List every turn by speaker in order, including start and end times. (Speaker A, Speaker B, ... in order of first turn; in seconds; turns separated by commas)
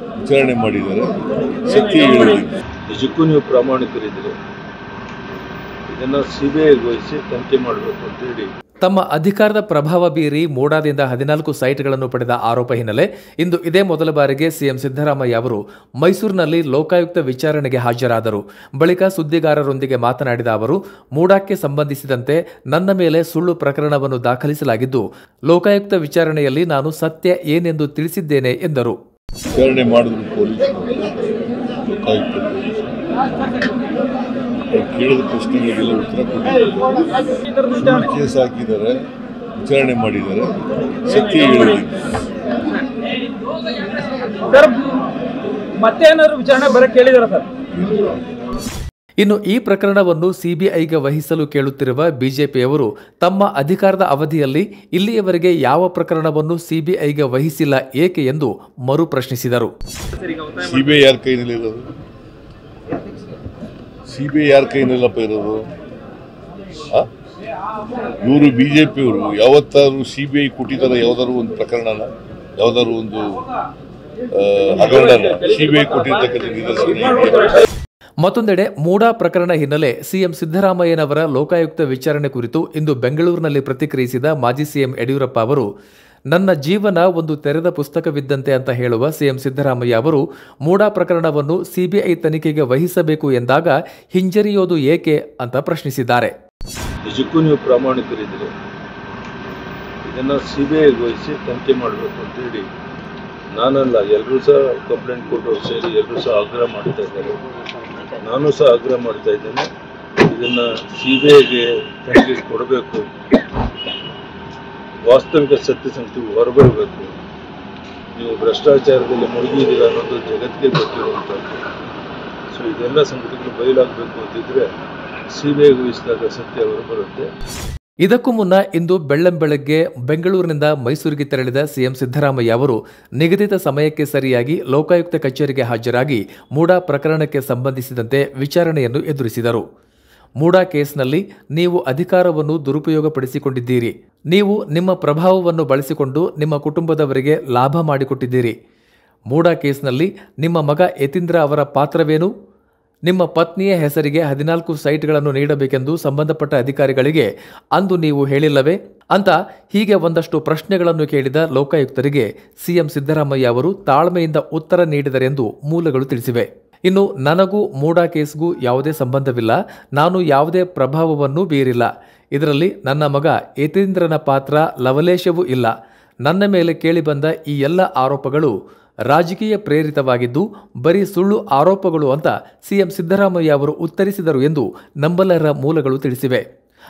Speaker A: 0.2-2.5, Speaker B: 2.9-4.3, Speaker B: 5.9-8.5, Speaker C: 8.8-29.0, Speaker A: 29.5-31.1, Speaker A: 31.9-32.8, Speaker A: 34.7-36.9, Speaker D: 37.4-38.0, Speaker A: 37.8-39.0, Speaker A: 39.6-42.0, Speaker D: 44.5-44.9, Speaker D: 45.8-47.5, Speaker A: 47.8-48.0, Speaker C: 49.2-59.7, Speaker A: 60.5-61.9, Speaker A: 64.1-65.6, Speaker A: 68.2-73.2, Speaker A: 74.3-77.5, Speaker C: 78.2-85.7, Speaker C: 86.3-96.3, Speaker B: 97.0-98.5, Speaker B: 100.0-102.7, Speaker B: 103.5-107.4, Speaker B: 108.2-109.7, Speaker B: 110.2-113.1, Speaker B: 115.0-117.1, Speaker B: 118.2-121.6, Speaker B: 122.5-124.7, Speaker B: 125.3-127.3, Speaker C: 128.0-139.6, Speaker C: 140.4-148.5, Speaker C: 149.3-152.3, Speaker C: 153.1-175.7, Speaker C: 176.2-178.5, Speaker C: 179.1-186.4